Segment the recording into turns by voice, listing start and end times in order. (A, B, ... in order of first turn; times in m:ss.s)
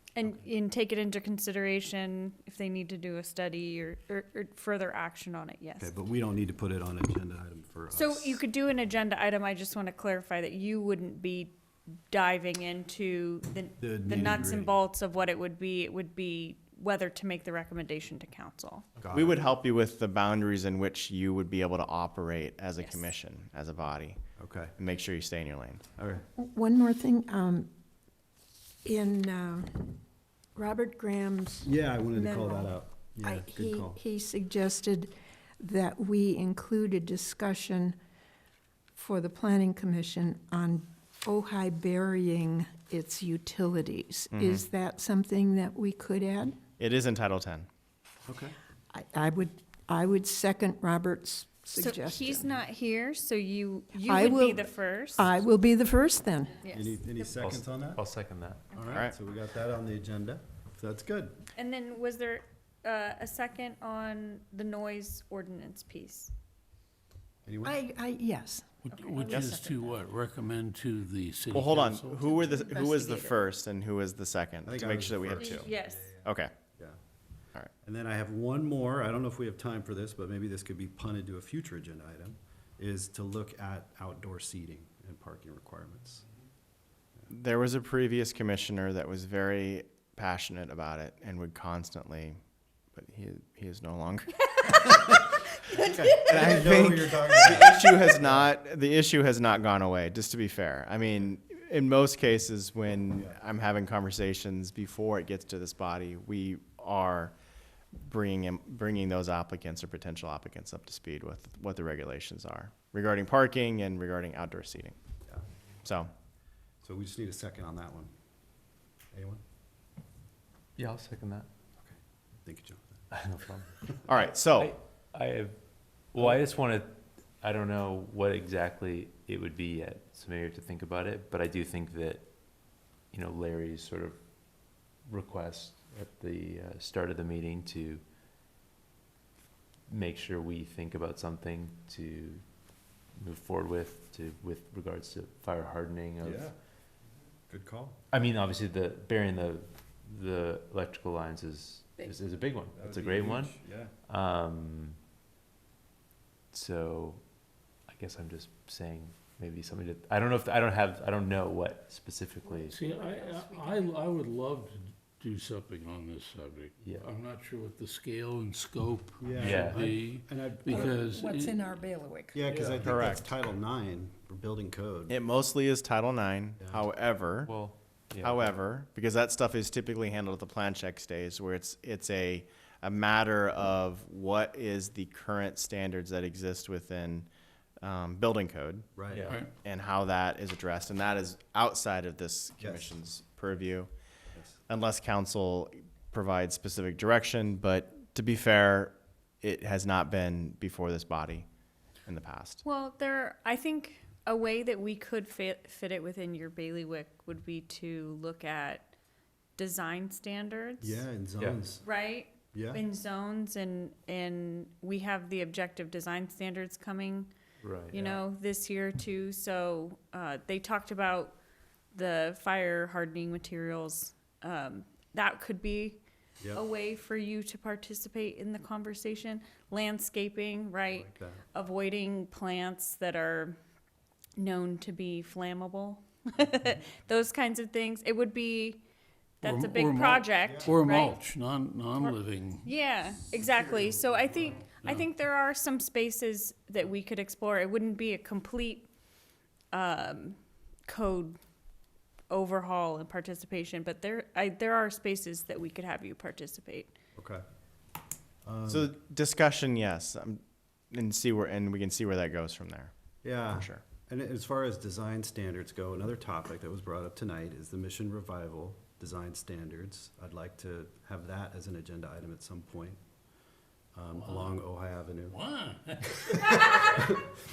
0:00.2-0:05.9 A
0:05.8-0:08.4 B
0:07.9-0:11.6 A
0:12.1-0:18.9 A
0:13.8-0:14.8 B
0:19.0-0:19.4 B
0:19.1-0:24.2 C
0:22.8-0:23.1 A
0:24.4-0:24.7 B
0:24.8-0:25.8 C
0:26.0-0:26.2 B
0:26.4-0:27.7 D
0:28.8-0:30.0 D
0:30.6-0:38.0 D
0:31.6-0:34.0 B
0:39.0-0:46.6 D
0:44.3-0:44.7 C
0:46.8-0:47.7 C
0:48.3-0:48.6 B
0:48.9-0:52.5 D
0:51.8-0:55.3 A
0:53.9-0:56.6 D
0:56.6-0:57.3 A
0:56.7-0:58.0 B
0:57.4-0:58.6 E
0:58.7-1:01.3 B
1:01.6-1:06.3 A
1:07.4-1:07.8 B
1:07.6-1:08.8 D
1:08.8-1:12.4 F
1:08.9-1:09.9 A
1:09.2-1:09.5 C
1:11.5-1:15.7 C
1:12.4-1:13.4 D
1:14.6-1:16.2 B
1:15.3-1:16.1 A
1:16.2-1:16.5 C
1:17.8-1:26.2 B
1:27.3-1:32.4 C
1:33.0-1:34.7 C
1:34.7-1:35.1 B
1:35.7-1:38.5 B
1:36.2-1:47.4 C
1:48.0-1:55.0 C
1:55.8-1:56.1 C
1:56.8-1:58.1 B
1:59.1-1:59.4 B
2:00.8-2:01.5 E
2:01.8-2:03.0 B
2:03.1-2:12.3 E
2:04.1-2:04.7 C
2:13.1-2:14.2 E
2:14.7-2:18.0 E
2:19.9-2:22.4 E
2:23.2-2:26.5 E
2:26.2-2:26.5 B
2:27.5-2:28.0 B
2:28.1-2:33.6 E
2:32.8-2:33.9 B
2:34.1-2:35.0 E
2:36.5-2:37.2 E
2:37.9-2:42.8 E
2:42.7-2:51.9 F
2:46.8-2:47.1 E
2:49.2-2:51.0 B
2:49.4-2:49.9 E
2:51.3-2:52.2 D
2:52.3-2:55.2 B
2:52.8-2:53.3 C
2:55.1-2:57.5 C
2:56.6-2:56.9 B
2:57.4-2:58.6 E
2:58.2-3:07.3 C
3:07.8-3:08.9 C
3:09.0-3:09.4 B
3:09.1-3:09.4 E
3:09.4-3:13.9 C
3:12.6-3:13.0 B
3:14.3-3:14.6 B
3:14.7-3:21.5 C
3:22.0-3:22.6 C
3:22.6-3:28.9 A
3:29.6-3:31.0 A
3:30.8-3:31.8 B
3:31.4-3:31.6 E
3:31.8-3:37.3 A
3:32.5-3:32.8 B
3:37.6-3:38.2 E
3:37.9-3:41.4 A
3:41.9-3:46.0 A
3:46.5-3:53.6 A
3:50.9-3:51.4 B
3:54.4-3:58.8 A
3:59.4-4:02.7 F
3:59.4-4:01.2 A
4:00.4-4:00.8 B
4:02.0-4:08.9 A
4:03.5-4:04.6 B
4:04.8-4:05.1 F
4:09.7-4:11.4 A
4:12.3-4:17.0 A
4:17.2-4:17.4 B
4:18.4-4:18.9 B
4:18.7-4:22.9 C
4:23.2-4:33.0 B
4:23.5-4:23.8 C
4:34.0-4:35.4 B
4:34.2-4:34.6 F
4:35.3-4:37.1 F
4:36.2-4:37.2 B